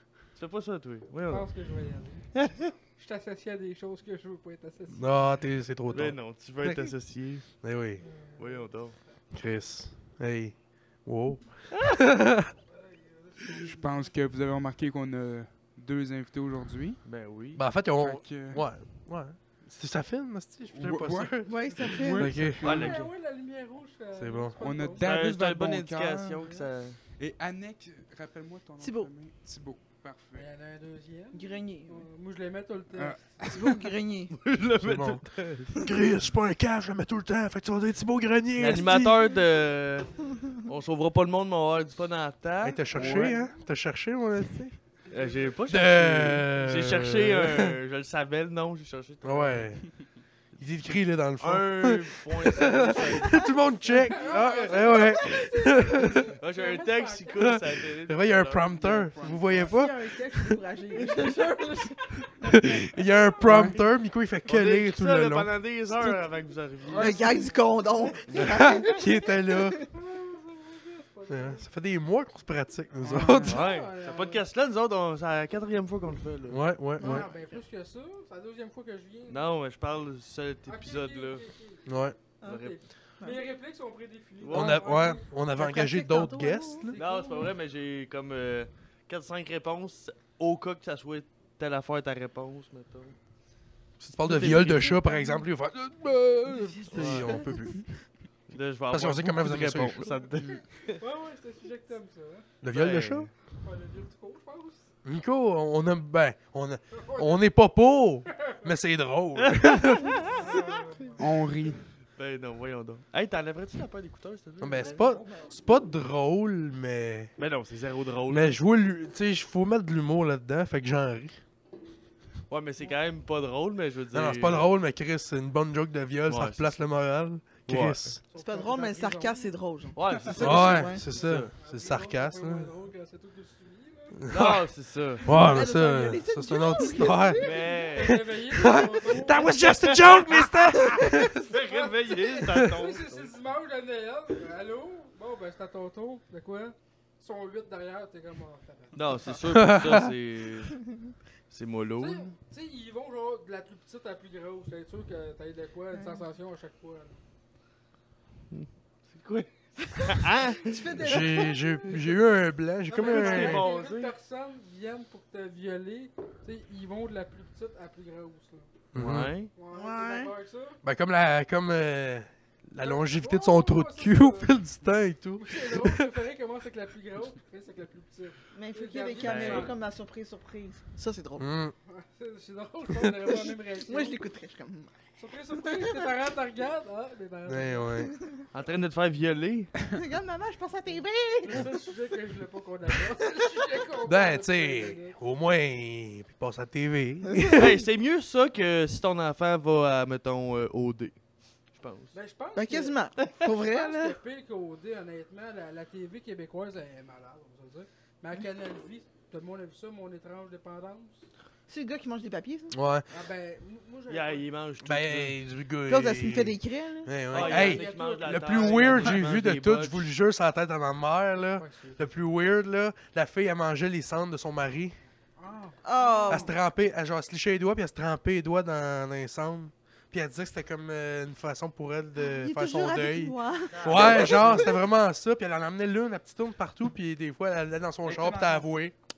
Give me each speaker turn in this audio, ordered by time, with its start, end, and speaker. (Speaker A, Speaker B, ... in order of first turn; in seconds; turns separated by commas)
Speaker A: 0.3-1.5, Speaker B: 1.3-2.4, Speaker A: 2.3-2.7, Speaker B: 2.9-5.4, Speaker C: 4.9-6.9, Speaker A: 5.9-7.5, Speaker C: 7.6-8.0, Speaker B: 8.0-9.2, Speaker A: 8.2-9.0, Speaker C: 9.3-12.5, Speaker B: 12.7-14.1, Speaker D: 13.5-17.0, Speaker A: 17.0-17.6, Speaker C: 17.5-22.9, Speaker D: 17.8-18.7, Speaker D: 20.7-23.0, Speaker E: 21.4-22.3, Speaker A: 22.6-23.1, Speaker B: 22.6-25.2, Speaker C: 24.1-24.6, Speaker D: 24.6-26.6, Speaker A: 25.0-27.0, Speaker D: 27.1-30.4, Speaker E: 28.8-29.1, Speaker B: 30.3-33.7, Speaker E: 31.3-32.1, Speaker D: 32.9-33.7, Speaker E: 33.5-34.4, Speaker A: 34.3-35.8, Speaker C: 34.8-39.2, Speaker A: 38.5-43.3, Speaker C: 42.6-45.0, Speaker D: 42.9-43.4, Speaker A: 45.1-49.7, Speaker B: 45.1-45.5, Speaker C: 45.7-47.7, Speaker C: 49.2-56.2, Speaker A: 51.4-53.5, Speaker B: 54.0-57.6, Speaker A: 56.4-58.9, Speaker C: 57.4-60.1, Speaker D: 58.7-59.7, Speaker E: 59.5-62.0, Speaker B: 61.1-61.9, Speaker C: 62.4-65.5, Speaker B: 63.0-63.5, Speaker D: 63.4-63.8, Speaker A: 64.4-67.2, Speaker D: 65.9-66.2, Speaker D: 66.8-67.2, Speaker E: 66.9-69.1, Speaker B: 67.2-67.5, Speaker C: 68.3-69.8, Speaker B: 69.8-71.7, Speaker C: 71.3-73.5, Speaker D: 73.0-73.7, Speaker B: 73.4-74.4, Speaker A: 73.4-76.6, Speaker C: 76.5-77.3, Speaker E: 77.0-77.3, Speaker B: 77.0-79.4, Speaker A: 79.3-81.5, Speaker B: 80.7-81.9, Speaker C: 81.8-82.2, Speaker A: 82.4-82.8, Speaker B: 82.4-85.3, Speaker A: 84.4-84.8, Speaker C: 84.5-87.0, Speaker E: 85.5-86.9, Speaker B: 86.8-87.5, Speaker A: 87.0-93.2, Speaker C: 94.0-98.0, Speaker A: 94.2-95.0, Speaker A: 96.9-97.4, Speaker E: 97.0-97.6, Speaker A: 98.5-101.0, Speaker C: 98.9-100.0, Speaker B: 100.9-102.5, Speaker C: 102.6-103.3, Speaker A: 102.7-103.3, Speaker B: 103.5-104.9, Speaker C: 105.0-110.3, Speaker B: 106.9-107.5, Speaker A: 109.4-110.2, Speaker B: 110.2-111.9, Speaker E: 110.3-110.6, Speaker D: 111.2-111.8, Speaker A: 112.2-115.0, Speaker C: 114.6-117.4, Speaker B: 114.8-115.3, Speaker E: 114.8-115.5, Speaker A: 117.4-118.6, Speaker C: 118.3-121.4, Speaker A: 122.5-124.7, Speaker C: 124.1-128.2, Speaker A: 126.2-126.8, Speaker A: 127.7-128.2, Speaker B: 128.3-129.5, Speaker E: 128.3-131.1, Speaker A: 129.9-131.5, Speaker C: 130.4-132.7, Speaker B: 130.9-134.2, Speaker C: 134.2-134.6, Speaker A: 134.3-135.3, Speaker C: 135.2-137.5, Speaker E: 135.3-137.7, Speaker A: 137.4-138.2, Speaker B: 137.4-139.4, Speaker C: 138.0-141.5, Speaker A: 139.3-143.3, Speaker E: 140.8-141.1, Speaker B: 141.4-149.3, Speaker A: 148.9-150.9, Speaker C: 149.5-150.0, Speaker A: 151.5-152.3, Speaker B: 152.0-157.2, Speaker E: 155.9-156.2, Speaker A: 158.5-161.3, Speaker E: 160.5-161.9, Speaker C: 161.0-163.7, Speaker A: 162.9-164.1, Speaker B: 162.9-168.7, Speaker C: 168.9-169.3, Speaker D: 168.9-169.3, Speaker A: 169.0-169.5, Speaker B: 169.5-170.8, Speaker E: 169.7-170.3, Speaker C: 170.8-176.1, Speaker B: 172.8-174.6, Speaker B: 175.4-179.8, Speaker E: 178.5-181.5, Speaker A: 179.2-179.7, Speaker C: 181.4-181.7, Speaker B: 181.8-184.2, Speaker E: 183.3-184.9, Speaker B: 185.2-188.0, Speaker E: 185.5-186.1, Speaker C: 187.5-188.1, Speaker E: 188.0-188.4, Speaker A: 188.5-189.7, Speaker E: 189.9-191.8, Speaker B: 191.4-195.2, Speaker C: 194.0-197.8, Speaker E: 197.3-197.7, Speaker A: 197.5-201.2, Speaker A: 201.7-202.1, Speaker B: 202.1-211.3, Speaker E: 202.5-204.2, Speaker E: 211.7-212.8, Speaker C: 212.7-213.1, Speaker B: 213.1-214.5, Speaker A: 214.1-215.4, Speaker C: 214.8-225.0, Speaker E: 215.8-217.2, Speaker A: 217.3-220.1, Speaker B: 217.3-219.2, Speaker B: 221.6-222.0, Speaker B: 225.4-226.5, Speaker E: 225.8-226.5, Speaker C: 226.3-238.9, Speaker E: 232.2-234.8, Speaker A: 233.7-234.7, Speaker B: 233.8-234.4, Speaker D: 238.1-238.4